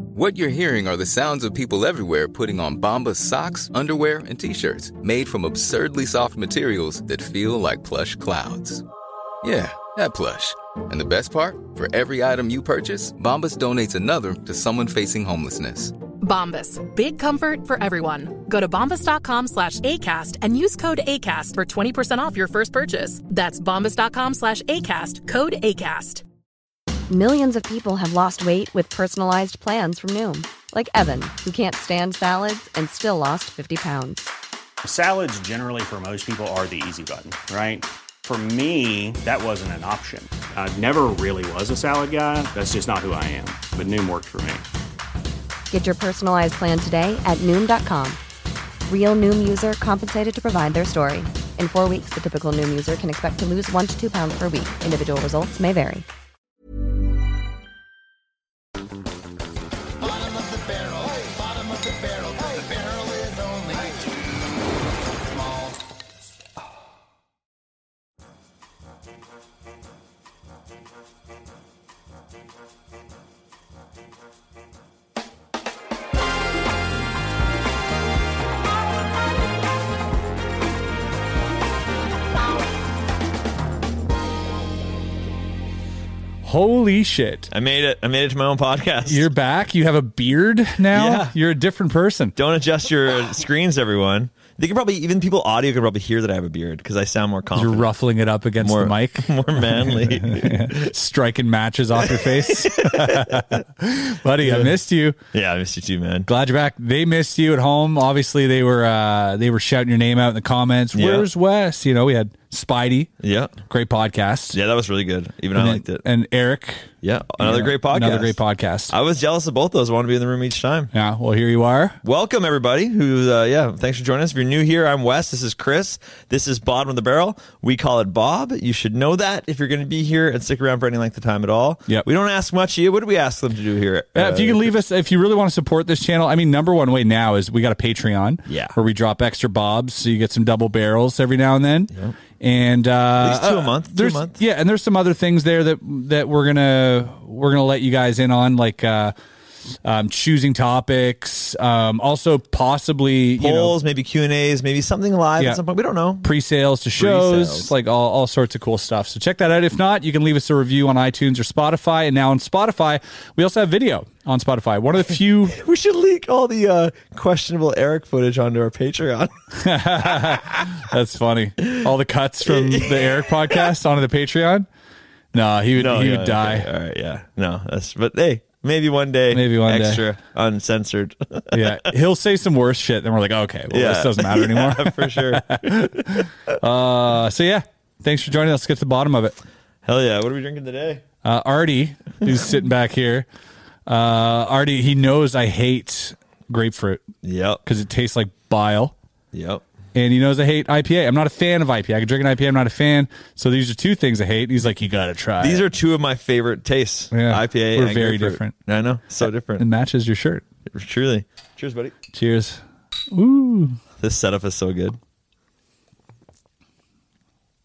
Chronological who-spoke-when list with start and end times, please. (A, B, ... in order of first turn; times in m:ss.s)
0:00.1-0:08.8 A
0:09.4-0:15.9 A
0:16.2-0:26.2 B
0:27.1-0:34.3 C
0:34.8-0:44.6 D
0:45.7-0:48.2 C
0:48.8-0:56.0 C
1:00.1-1:04.0 E
1:26.4-1:27.5 F
1:27.5-1:29.3 G
1:29.1-1:32.3 F
1:30.9-1:31.3 G
1:32.4-1:37.9 G
1:37.5-1:45.2 F
1:38.6-1:40.9 G
1:42.0-1:43.6 G
1:44.4-1:44.7 G
1:45.3-1:46.3 G
1:46.3-1:53.1 F
1:50.9-1:51.3 G
1:53.2-1:53.5 G
1:53.7-1:54.6 F
1:54.5-1:56.0 G
1:55.5-1:58.9 F
1:57.0-1:58.4 G
1:58.9-2:00.9 G
2:00.9-2:02.0 F
2:02.0-2:14.8 G
2:14.1-2:29.1 F
2:18.4-2:18.8 G
2:23.2-2:24.4 G
2:29.8-2:33.8 F
2:33.4-2:36.3 G
2:36.2-2:45.6 F
2:37.0-2:37.7 G
2:45.5-2:49.3 G
2:49.5-2:54.7 F
2:50.0-2:50.4 G
2:52.4-2:53.7 G
2:55.3-2:56.7 F
2:55.8-3:01.8 G
2:59.3-3:00.0 F
3:01.5-3:09.4 F
3:03.7-3:06.5 G
3:09.8-3:11.0 G
3:11.2-3:13.2 F
3:13.9-3:17.0 F
3:17.2-3:17.6 G
3:17.6-3:18.9 F
3:19.3-3:19.6 G
3:19.9-3:25.6 F
3:25.4-3:29.6 G
3:27.1-3:28.5 F
3:29.6-3:30.4 F
3:30.7-3:32.0 G
3:32.1-3:32.6 F
3:33.1-3:33.8 F
3:34.0-3:35.0 G